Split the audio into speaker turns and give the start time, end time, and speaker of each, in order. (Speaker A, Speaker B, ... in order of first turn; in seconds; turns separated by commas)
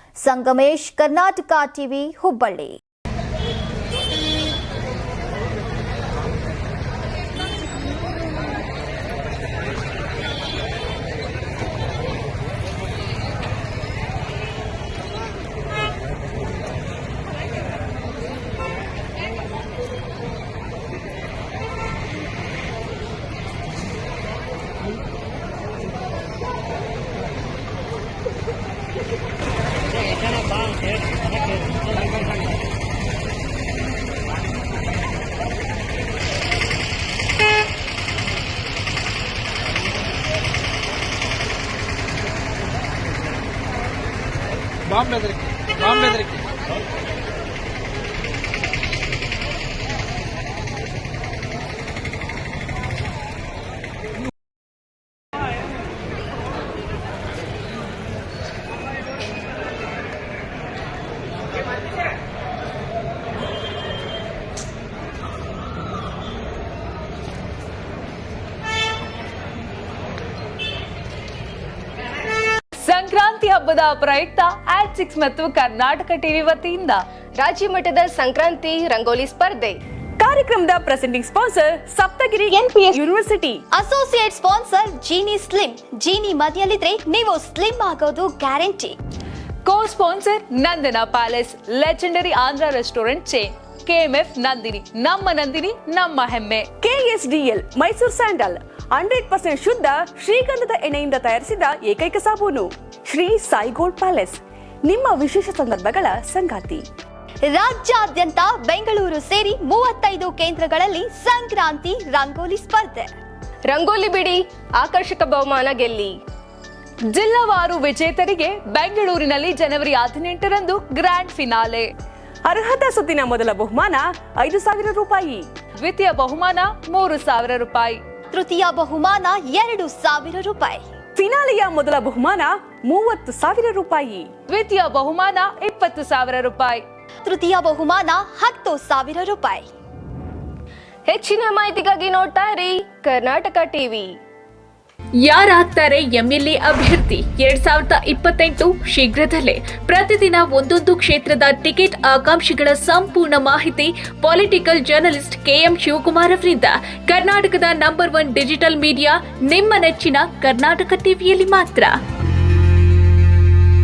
Speaker A: 0.2-2.7, Speaker B: 72.8-77.0, Speaker C: 77.3-79.8, Speaker D: 80.2-83.6, Speaker A: 82.6-82.9, Speaker A: 83.7-89.0, Speaker B: 89.7-96.7, Speaker D: 96.8-106.9, Speaker A: 107.5-113.1, Speaker C: 113.6-116.2, Speaker B: 117.1-121.9, Speaker D: 122.4-125.5, Speaker B: 125.8-128.0, Speaker A: 128.3-130.8, Speaker D: 131.2-134.3, Speaker B: 134.5-136.8, Speaker A: 137.2-139.7, Speaker C: 141.1-144.2, Speaker E: 145.2-161.9